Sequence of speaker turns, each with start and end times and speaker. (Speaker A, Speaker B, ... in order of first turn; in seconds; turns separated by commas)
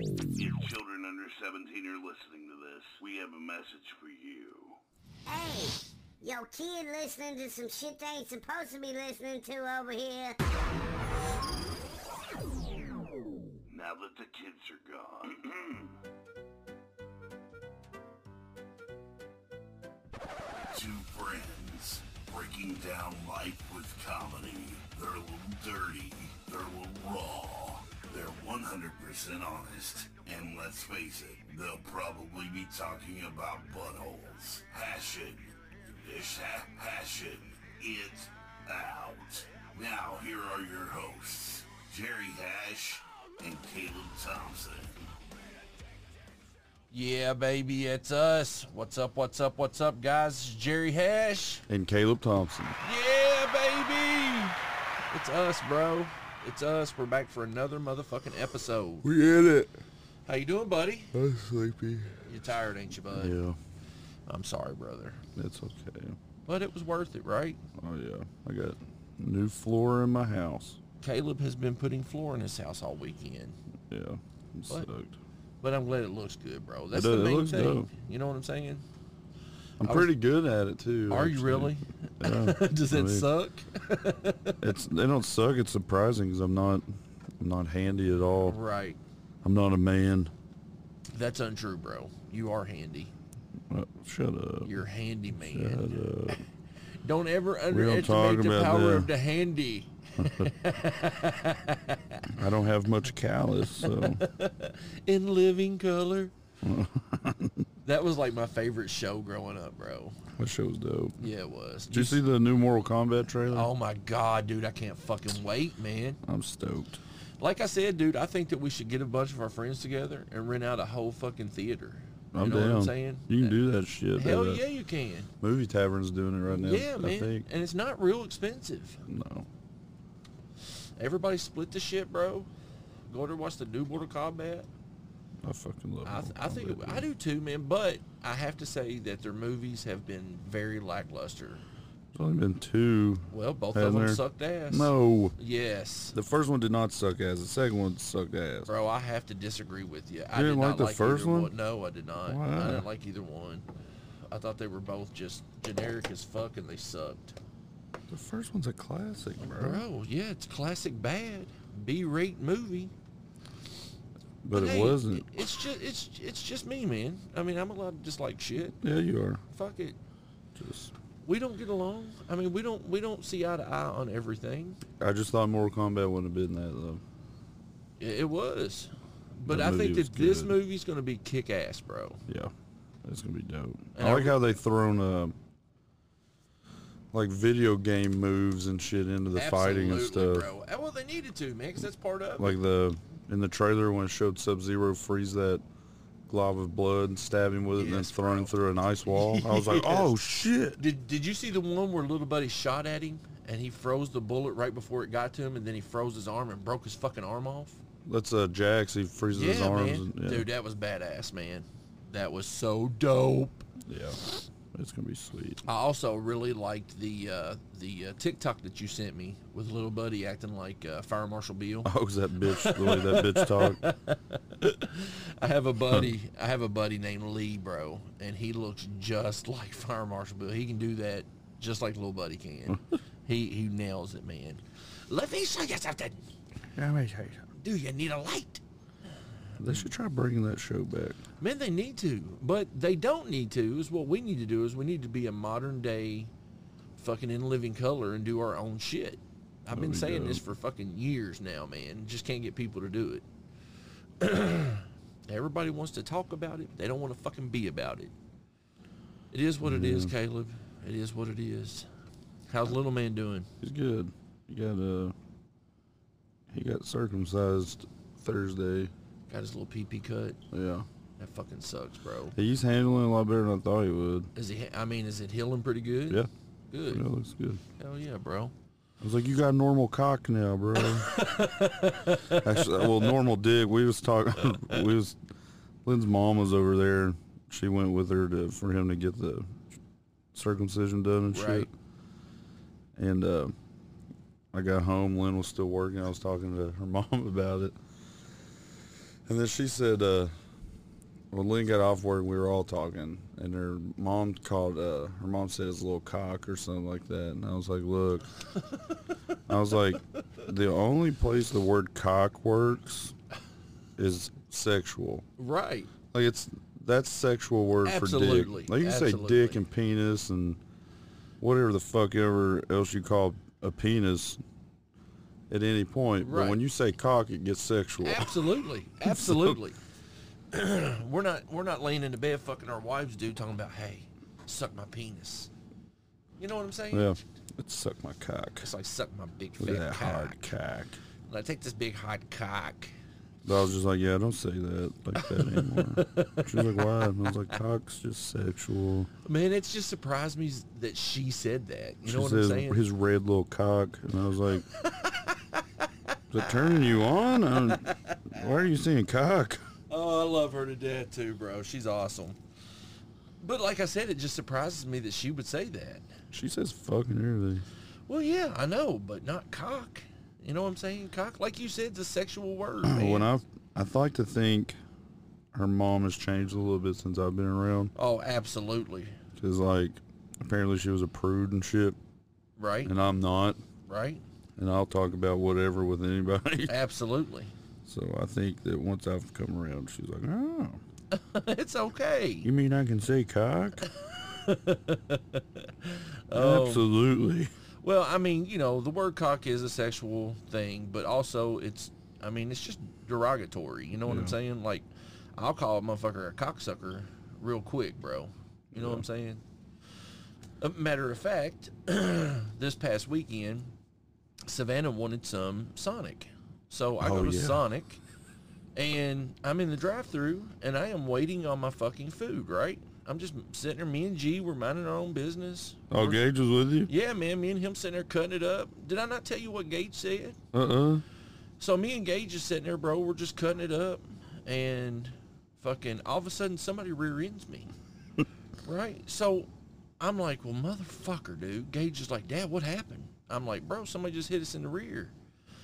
Speaker A: 0.3-4.8, Speaker B: 5.3-10.4, Speaker A: 13.7-15.9, Speaker A: 20.7-45.0, Speaker C: 46.9-51.6, Speaker D: 51.7-52.8, Speaker C: 52.8-54.6, Speaker C: 55.1-59.1, Speaker D: 59.0-59.7, Speaker C: 60.2-61.1, Speaker D: 61.1-62.3, Speaker C: 62.2-63.4, Speaker D: 63.1-63.6, Speaker C: 64.3-65.2, Speaker D: 65.3-66.2, Speaker C: 66.5-67.6, Speaker D: 67.8-70.8, Speaker C: 71.0-73.6, Speaker D: 73.9-75.2, Speaker C: 75.6-78.8, Speaker D: 76.9-77.9, Speaker D: 79.8-83.3, Speaker C: 79.8-80.1, Speaker C: 81.1-84.6, Speaker D: 84.6-86.9, Speaker D: 87.4-88.6, Speaker C: 88.5-89.0, Speaker D: 89.4-90.3, Speaker C: 91.1-93.1, Speaker D: 93.7-94.7, Speaker C: 94.6-96.4, Speaker D: 95.3-96.4, Speaker C: 97.0-102.3, Speaker D: 97.7-99.1, Speaker D: 100.2-100.5, Speaker D: 102.3-104.2, Speaker C: 103.8-106.3, Speaker D: 106.6-107.7, Speaker C: 107.8-110.2, Speaker D: 110.3-111.2, Speaker C: 111.2-112.2, Speaker D: 111.9-113.7, Speaker C: 113.5-116.2, Speaker D: 116.2-117.0, Speaker C: 117.4-123.6, Speaker D: 122.3-124.6, Speaker C: 124.1-125.3, Speaker D: 125.4-127.4, Speaker C: 126.5-129.0, Speaker D: 129.1-129.5, Speaker C: 131.0-132.5, Speaker C: 133.1-134.7, Speaker D: 135.4-137.1, Speaker C: 136.0-141.6, Speaker D: 142.1-145.3, Speaker C: 143.3-146.2, Speaker D: 146.1-148.7, Speaker C: 148.7-153.7, Speaker D: 150.3-151.5, Speaker D: 152.2-152.8, Speaker C: 154.3-157.4, Speaker D: 158.1-159.8, Speaker C: 159.4-162.9, Speaker D: 164.4-165.3, Speaker C: 164.5-168.8, Speaker D: 168.8-169.4, Speaker C: 169.5-170.0, Speaker D: 170.6-170.9, Speaker C: 171.2-174.8, Speaker D: 175.0-177.0, Speaker C: 178.0-182.2, Speaker D: 179.4-180.6, Speaker D: 182.3-182.5, Speaker D: 183.0-185.3, Speaker C: 183.9-184.4, Speaker D: 187.1-190.5, Speaker C: 189.3-192.6, Speaker D: 192.4-195.6, Speaker D: 196.3-200.8, Speaker C: 197.8-198.5, Speaker C: 199.1-200.2, Speaker C: 200.8-207.8, Speaker D: 208.0-210.5, Speaker C: 209.3-213.7, Speaker D: 213.8-214.2, Speaker D: 214.7-215.6, Speaker C: 215.6-236.2, Speaker D: 221.8-223.8, Speaker D: 236.7-237.5, Speaker C: 237.6-238.6, Speaker D: 239.6-241.2, Speaker C: 241.4-246.3, Speaker C: 247.0-253.2, Speaker D: 249.7-250.4, Speaker C: 254.2-258.1, Speaker C: 259.3-261.9, Speaker D: 259.6-260.1, Speaker C: 262.5-263.5, Speaker D: 263.6-265.1, Speaker D: 266.5-268.9, Speaker C: 269.3-270.4, Speaker D: 270.5-270.9, Speaker C: 271.2-272.3, Speaker D: 272.3-274.3, Speaker C: 274.3-277.0, Speaker D: 276.9-277.6, Speaker C: 277.8-278.5, Speaker D: 279.0-281.1, Speaker C: 280.8-283.1, Speaker D: 282.3-285.2, Speaker C: 284.5-284.8, Speaker D: 285.8-289.6, Speaker D: 290.3-291.7, Speaker C: 291.3-291.7, Speaker D: 292.9-293.5, Speaker D: 294.5-297.8, Speaker D: 299.2-300.3, Speaker D: 301.3-308.3, Speaker D: 309.5-313.1, Speaker D: 314.0-315.2, Speaker C: 315.4-315.9, Speaker D: 316.1-320.6, Speaker C: 317.8-319.6, Speaker D: 321.4-324.4, Speaker D: 325.5-329.6, Speaker C: 326.2-326.6, Speaker C: 328.0-329.8, Speaker C: 330.5-335.5, Speaker C: 336.4-337.2, Speaker D: 336.9-338.7, Speaker C: 338.6-340.5, Speaker D: 339.6-341.0, Speaker C: 341.3-342.9, Speaker D: 343.4-349.1, Speaker C: 345.2-347.3, Speaker C: 349.2-352.8, Speaker D: 352.0-354.6, Speaker C: 354.7-355.9, Speaker D: 356.3-359.7, Speaker C: 356.4-358.4, Speaker C: 359.9-362.4, Speaker C: 363.4-366.1, Speaker D: 366.3-367.6, Speaker C: 368.1-373.3, Speaker D: 372.8-374.8, Speaker D: 375.5-377.9, Speaker C: 377.9-379.1, Speaker D: 379.4-382.0, Speaker C: 382.6-382.9, Speaker D: 382.8-383.6, Speaker C: 383.9-384.2, Speaker D: 384.6-386.7, Speaker C: 386.7-387.5, Speaker D: 387.9-390.8, Speaker C: 391.1-392.5, Speaker D: 392.4-393.9, Speaker C: 393.8-396.9, Speaker D: 396.3-397.5, Speaker C: 397.8-409.4, Speaker D: 404.0-404.4, Speaker D: 408.7-409.0, Speaker C: 410.6-413.7, Speaker C: 414.5-418.0, Speaker D: 417.0-417.6, Speaker C: 418.8-426.2, Speaker D: 425.9-426.9, Speaker C: 426.9-430.4, Speaker D: 430.5-431.0, Speaker C: 431.6-437.7, Speaker C: 438.6-439.5, Speaker C: 440.0-445.1